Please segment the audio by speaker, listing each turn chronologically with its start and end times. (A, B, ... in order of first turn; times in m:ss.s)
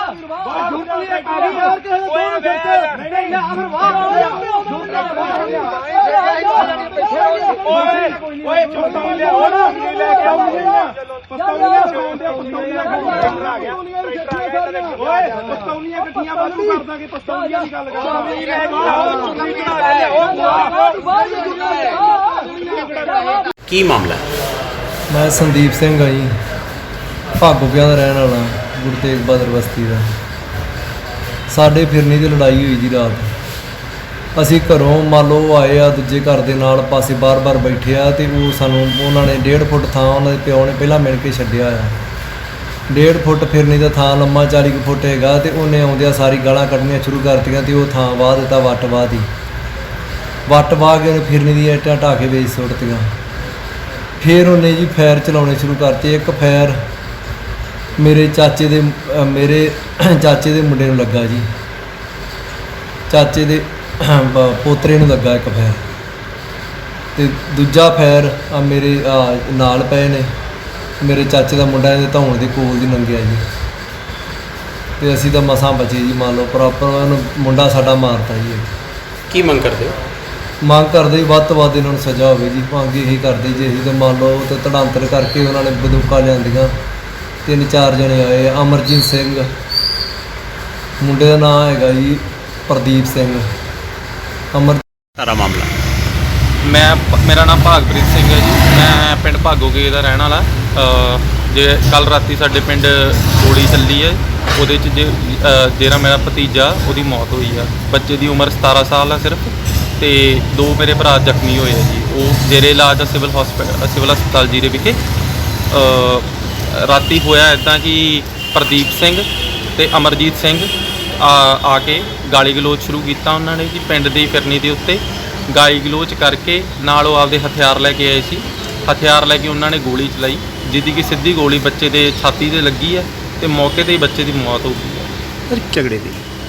0:00.4-0:05.6 A
0:07.6-0:22.2 A
0:23.7-0:24.2 B
0:25.1-0:26.3 C
0:27.4-0:30.1 C
0:31.5-0:33.3 C
0:34.4-0:42.0 C
0:42.9-0:49.3 C
0:50.5-0:53.1 C
0:54.2-0:56.8 C
0:58.0-1:01.5 C
1:03.1-1:05.8 C
1:07.2-1:10.3 C
1:11.0-1:13.4 C
1:15.0-1:18.7 C
1:19.3-1:20.0 B
1:20.6-1:26.7 C
1:27.4-1:29.5 C
1:31.0-1:33.5 C
1:34.5-1:34.8 C
1:35.2-1:35.7 B
1:36.6-1:55.0 D
1:55.7-2:15.1 D
2:15.5-2:16.2 B